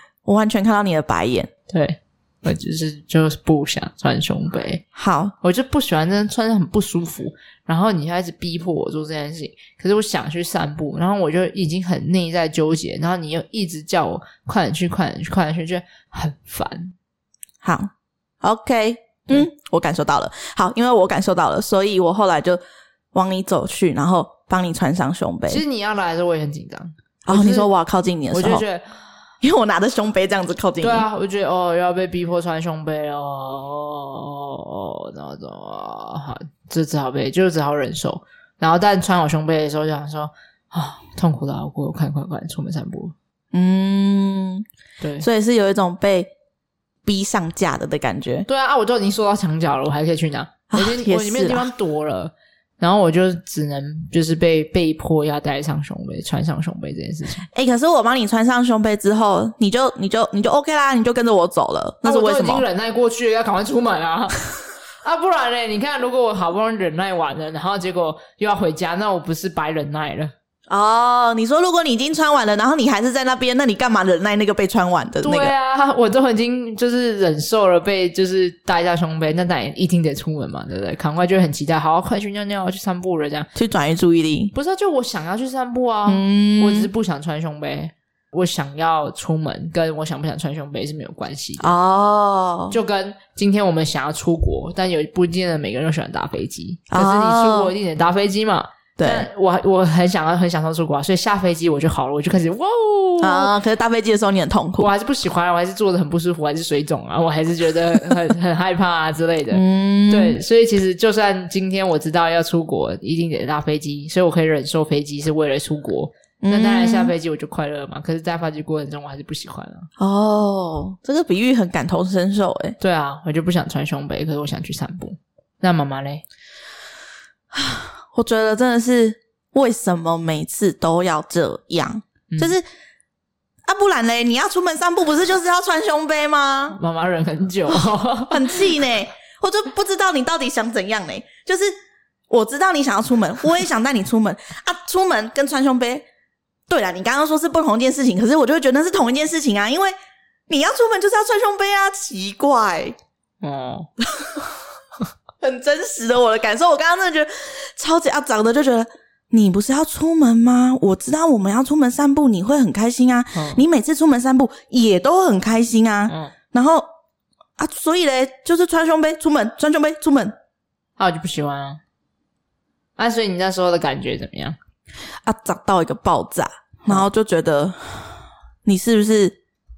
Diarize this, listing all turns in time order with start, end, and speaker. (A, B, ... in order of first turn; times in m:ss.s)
0:00.3-0:01.5 A
0:01.7-0:04.8 B
0:05.0-0:05.3 A
0:05.4-0:17.0 B
0:17.6-0:22.6 A
0:23.1-0:25.6 A
0:25.5-0:27.7 B
0:27.3-0:28.6 A
0:28.3-0:28.9 B
0:29.4-0:31.0 A
0:30.8-0:43.1 B
0:43.5-0:44.6 A
0:45.0-0:45.3 B
0:45.2-0:46.3 A
0:47.1-0:48.5 A
0:48.5-0:57.5 B
0:50.7-0:51.7 A
0:57.5-1:02.6 A
1:02.0-1:10.3 B
1:10.7-1:15.5 A
1:15.2-1:23.5 B
1:23.6-1:24.5 A
1:24.5-1:31.8 B
1:26.1-1:26.9 A
1:31.6-1:32.8 A
1:32.7-1:43.5 B
1:36.9-1:37.7 A
1:39.0-1:39.3 A
1:43.2-1:44.9 A
1:44.8-1:59.9 B
1:49.5-1:50.4 A
1:56.4-1:57.1 A
2:00.0-2:02.8 A
2:02.8-2:06.2 B
2:07.5-2:12.7 A
2:12.3-2:12.6 B
2:13.7-2:16.8 A
2:16.7-2:18.8 B
2:18.3-2:21.7 A
2:22.3-2:26.1 A
2:26.7-2:29.9 A
2:30.5-2:33.0 A
2:33.4-2:33.9 B
2:34.0-2:34.5 A
2:35.4-2:46.9 A
2:43.3-2:43.6 B
2:46.1-2:46.3 B
2:47.6-2:50.4 A
2:51.0-2:51.8 B
2:53.0-2:54.6 B
2:55.2-2:59.4 A